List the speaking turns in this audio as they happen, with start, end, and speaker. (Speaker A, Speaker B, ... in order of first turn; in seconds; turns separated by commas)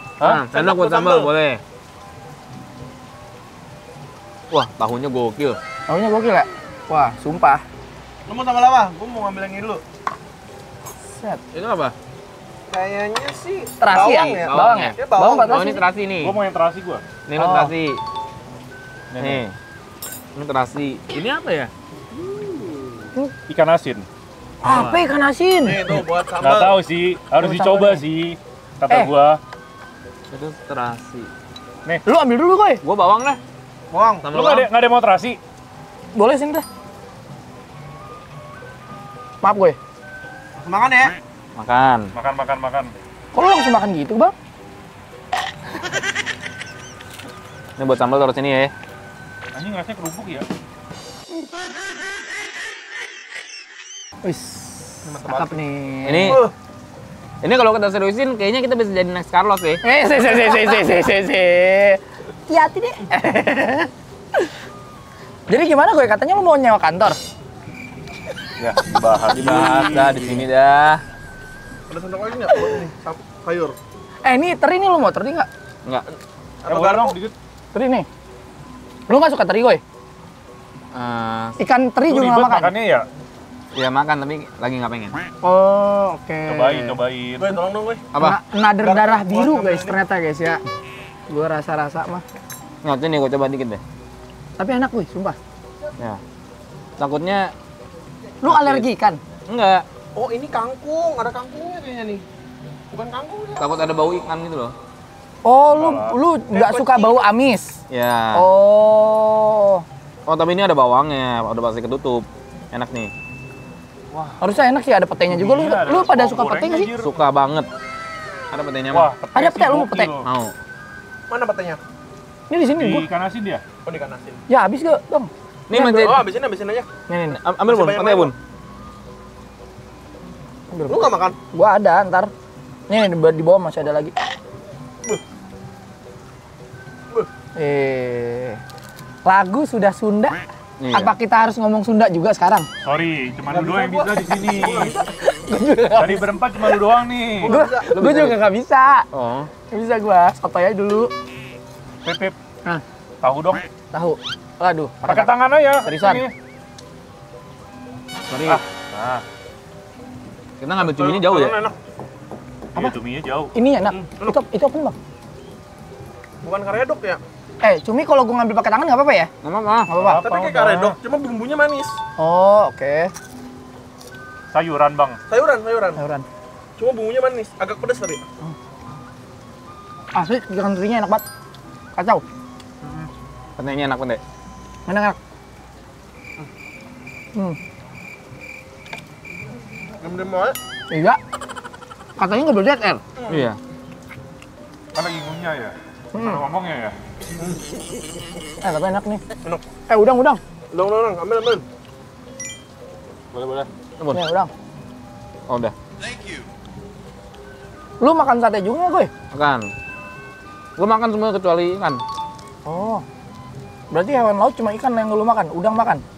Speaker A: 0.2-1.6, Speaker B: 0.5-1.3, Speaker A: 4.5-5.6, Speaker C: 5.9-7.6, Speaker B: 8.3-9.8, Speaker C: 11.1-11.4, Speaker A: 11.5-11.9, Speaker B: 12.7-15.8, Speaker C: 13.8-15.8, Speaker A: 13.9-14.9, Speaker A: 15.5-16.4, Speaker D: 16.2-17.1, Speaker A: 17.3-18.0, Speaker C: 17.4-17.7, Speaker D: 19.1-19.4, Speaker A: 19.2-19.6, Speaker A: 20.4-21.7, Speaker B: 22.1-23.0, Speaker D: 23.5-24.1, Speaker C: 24.6-25.8, Speaker A: 24.6-25.0, Speaker B: 25.6-26.8, Speaker D: 26.4-29.4, Speaker C: 27.4-28.0, Speaker A: 30.3-31.3, Speaker C: 32.0-32.8, Speaker A: 32.8-33.4, Speaker B: 33.9-34.3, Speaker A: 34.2-34.7, Speaker D: 34.3-35.4, Speaker C: 36.1-36.7, Speaker C: 39.4-39.8, Speaker B: 40.6-41.2, Speaker A: 41.6-42.1, Speaker D: 42.1-42.9, Speaker C: 43.3-44.3, Speaker A: 47.8-48.7, Speaker D: 49.5-50.5, Speaker C: 54.2-56.4, Speaker B: 55.0-55.6, Speaker A: 56.1-56.4, Speaker B: 56.2-56.5, Speaker A: 57.4-59.8, Speaker C: 59.8-63.9, Speaker C: 65.5-67.2, Speaker D: 68.6-70.4, Speaker A: 69.3-71.0, Speaker B: 71.9-73.8, Speaker C: 74.2-75.5, Speaker B: 76.6-77.2, Speaker D: 76.7-77.3, Speaker C: 77.7-78.1, Speaker C: 79.1-79.8, Speaker A: 80.9-81.6, Speaker C: 81.6-82.7, Speaker D: 82.1-83.1, Speaker A: 83.8-85.2, Speaker C: 85.4-87.0, Speaker D: 86.5-87.6, Speaker B: 87.4-88.1, Speaker C: 88.2-90.6, Speaker B: 88.8-90.0, Speaker C: 91.3-92.2, Speaker A: 92.8-93.8, Speaker C: 94.6-95.4, Speaker A: 97.0-97.5, Speaker C: 98.4-99.2, Speaker A: 98.5-98.9, Speaker A: 99.5-99.8, Speaker B: 100.2-102.2, Speaker B: 102.9-103.8, Speaker A: 103.6-104.7, Speaker C: 105.4-107.8, Speaker D: 105.8-106.2, Speaker B: 106.5-107.2, Speaker A: 107.9-108.5, Speaker C: 108.3-109.8, Speaker A: 110.3-113.1, Speaker D: 114.1-114.4, Speaker C: 114.4-116.9, Speaker D: 115.3-117.2, Speaker A: 117.0-117.7, Speaker A: 118.5-119.1, Speaker D: 118.9-120.3, Speaker C: 119.3-120.1, Speaker A: 120.2-120.5, Speaker B: 121.3-121.8, Speaker C: 122.5-123.1, Speaker D: 122.8-123.6, Speaker B: 123.8-124.4, Speaker C: 124.5-126.2, Speaker A: 125.7-126.2, Speaker B: 126.0-126.9, Speaker C: 127.1-127.4, Speaker A: 127.3-128.3, Speaker B: 127.6-128.3, Speaker C: 130.7-132.3, Speaker B: 130.9-131.4, Speaker C: 132.9-134.1, Speaker C: 137.6-138.6, Speaker C: 139.2-140.4, Speaker A: 140.8-141.1, Speaker C: 140.9-142.7, Speaker D: 142.8-144.9, Speaker B: 143.5-145.0, Speaker C: 145.3-146.3, Speaker D: 145.9-147.5, Speaker B: 147.3-147.9, Speaker C: 147.5-149.1, Speaker A: 147.9-148.4, Speaker A: 149.1-149.5, Speaker C: 149.7-151.1, Speaker D: 152.0-152.4, Speaker D: 153.2-153.7, Speaker C: 153.9-156.2, Speaker D: 155.1-156.3, Speaker C: 158.3-158.6, Speaker D: 158.5-159.2, Speaker A: 160.6-161.6, Speaker B: 160.8-161.8, Speaker D: 162.7-163.5, Speaker C: 163.5-165.0, Speaker B: 163.9-164.4, Speaker B: 166.4-167.2, Speaker C: 167.6-169.3, Speaker A: 169.4-169.9, Speaker C: 169.9-170.2, Speaker D: 169.9-171.0, Speaker B: 170.0-172.0, Speaker C: 172.2-173.1, Speaker D: 174.5-175.2, Speaker B: 175.3-176.0, Speaker C: 176.0-176.2, Speaker B: 176.8-178.2, Speaker C: 180.1-181.2, Speaker C: 181.9-182.2, Speaker D: 182.8-183.1, Speaker A: 183.6-184.2, Speaker C: 184.9-185.2, Speaker B: 190.0-190.6, Speaker C: 190.9-191.2, Speaker C: 192.2-193.0, Speaker B: 193.2-193.5, Speaker A: 193.3-193.6, Speaker D: 194.9-197.0, Speaker C: 196.1-196.4, Speaker C: 198.6-199.2, Speaker C: 199.9-200.4, Speaker B: 200.7-201.7, Speaker D: 203.3-203.7, Speaker C: 204.1-204.5, Speaker A: 205.5-205.7, Speaker C: 208.0-209.1, Speaker A: 209.3-209.7, Speaker A: 210.8-212.0, Speaker C: 212.7-213.1, Speaker C: 213.9-216.0